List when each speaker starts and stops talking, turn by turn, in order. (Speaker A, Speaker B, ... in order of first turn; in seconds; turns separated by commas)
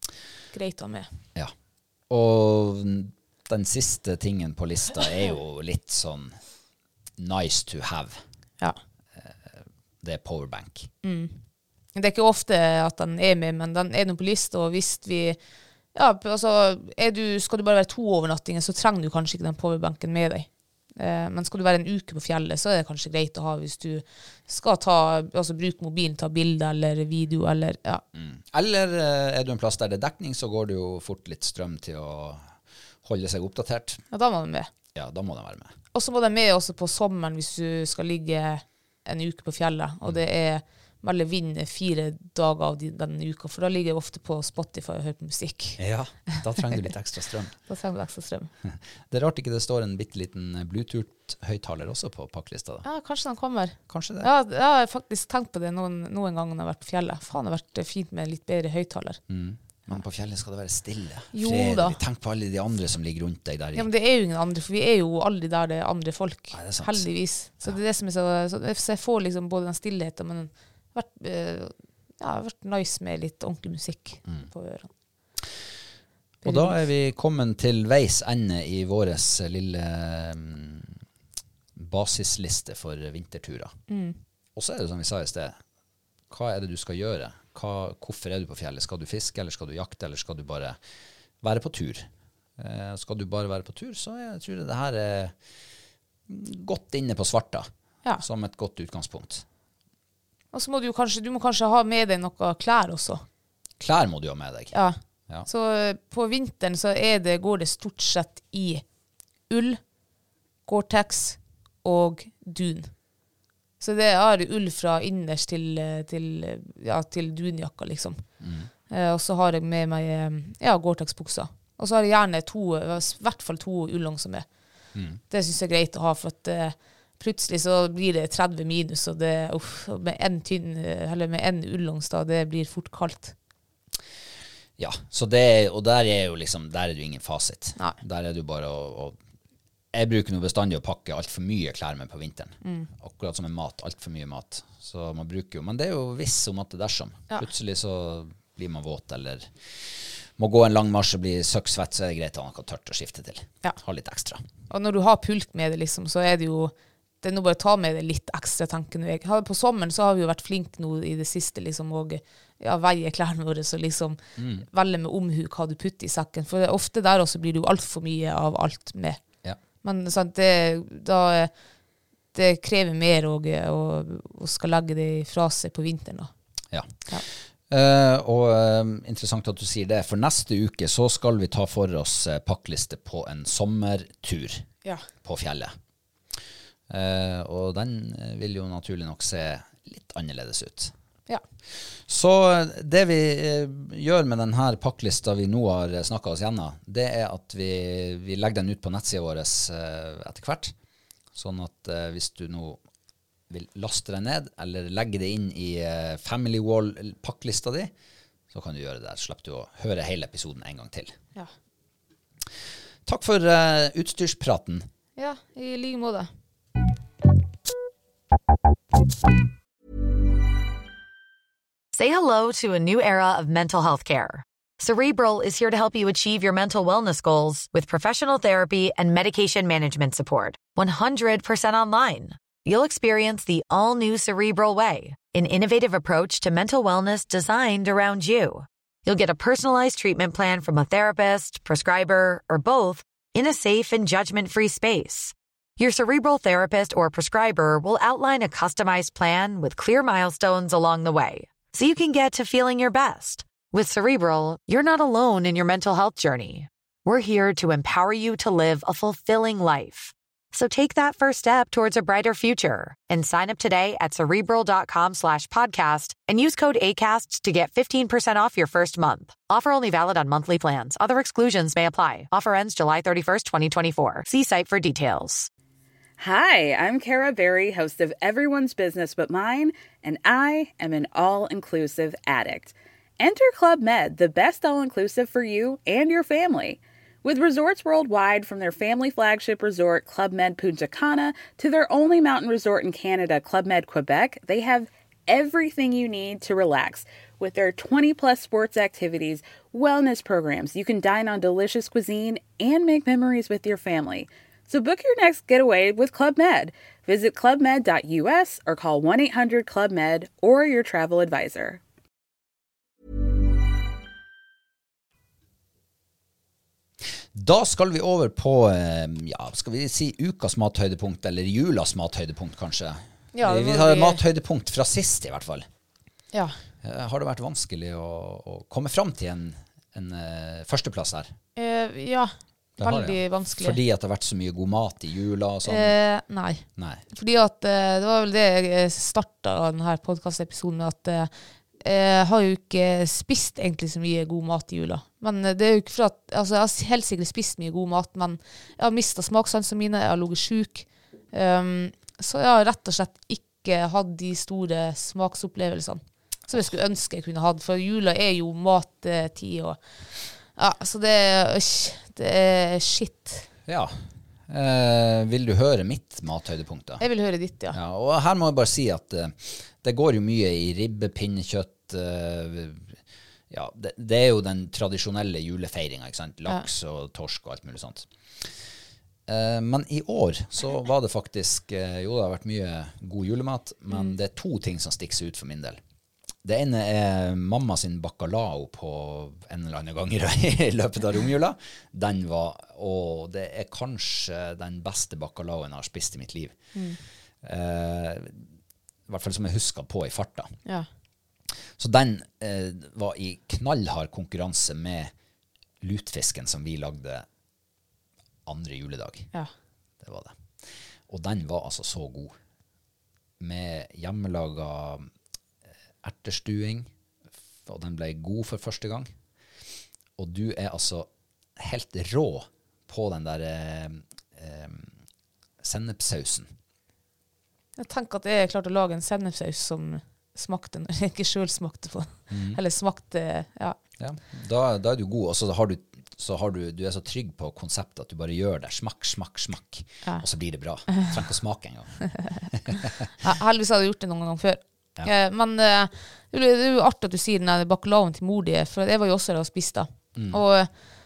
Speaker A: 0.5-1.1, Speaker B: 2.1-6.4, Speaker B: 7.2-8.2, Speaker B: 9.2-10.9, Speaker A: 11.0-11.4, Speaker A: 11.9-15.4, Speaker A: 15.9-28.0, Speaker B: 28.1-32.5, Speaker B: 33.0-34.0, Speaker A: 34.1-34.7, Speaker B: 34.9-35.7, Speaker A: 35.9-45.8, Speaker B: 45.8-47.5, Speaker A: 47.7-48.5, Speaker B: 48.6-52.9, Speaker A: 52.8-59.2, Speaker B: 53.9-54.3, Speaker B: 59.3-63.9, Speaker A: 61.3-62.0, Speaker A: 63.7-74.9, Speaker B: 66.5-67.0, Speaker A: 76.4-76.8, Speaker B: 76.4-81.0, Speaker B: 81.8-83.8, Speaker A: 83.9-84.2, Speaker B: 84.5-85.6, Speaker B: 86.3-90.8, Speaker B: 91.4-95.3, Speaker B: 96.3-97.7, Speaker B: 98.2-99.4, Speaker A: 100.5-103.2, Speaker B: 103.8-104.7, Speaker A: 104.7-108.8, Speaker A: 109.5-109.8, Speaker A: 110.7-112.9, Speaker A: 113.8-118.2, Speaker B: 118.4-118.7, Speaker A: 118.9-124.5, Speaker B: 124.9-125.2, Speaker A: 125.3-133.3, Speaker B: 134.8-139.2, Speaker B: 139.9-149.5, Speaker A: 142.6-142.9, Speaker B: 150.4-154.4, Speaker A: 154.7-169.2, Speaker B: 164.4-164.6, Speaker A: 169.8-171.5, Speaker A: 172.3-176.3, Speaker B: 177.7-184.7, Speaker B: 185.2-185.7, Speaker B: 186.9-190.9, Speaker B: 192.1-200.7, Speaker B: 201.3-202.8, Speaker B: 203.5-207.9, Speaker B: 208.5-211.1, Speaker B: 213.1-214.8, Speaker A: 215.2-216.3, Speaker C: 221.9-275.5, Speaker D: 276.2-311.8, Speaker B: 317.3-325.6, Speaker A: 323.3-324.2, Speaker B: 326.8-331.3, Speaker A: 331.6-333.8, Speaker B: 332.8-335.9, Speaker A: 335.6-359.8, Speaker B: 336.8-337.0, Speaker A: 360.5-363.4, Speaker B: 363.7-363.9, Speaker B: 364.5-367.0, Speaker A: 367.0-367.8, Speaker B: 367.7-373.0, Speaker B: 373.5-378.1, Speaker B: 379.3-385.8, Speaker B: 386.4-396.6, Speaker B: 397.4-398.4, Speaker B: 399.1-400.5, Speaker B: 401.8-405.1, Speaker B: 405.8-407.2, Speaker B: 408.4-409.3, Speaker B: 410.0-410.4, Speaker B: 411.1-412.3, Speaker B: 413.4-415.1, Speaker B: 416.0-416.9, Speaker B: 417.6-419.1, Speaker B: 420.2-424.9, Speaker B: 425.6-426.5, Speaker A: 427.8-433.8, Speaker B: 432.3-432.6, Speaker B: 434.0-442.0, Speaker B: 442.5-443.0, Speaker A: 443.2-450.7, Speaker B: 450.1-450.4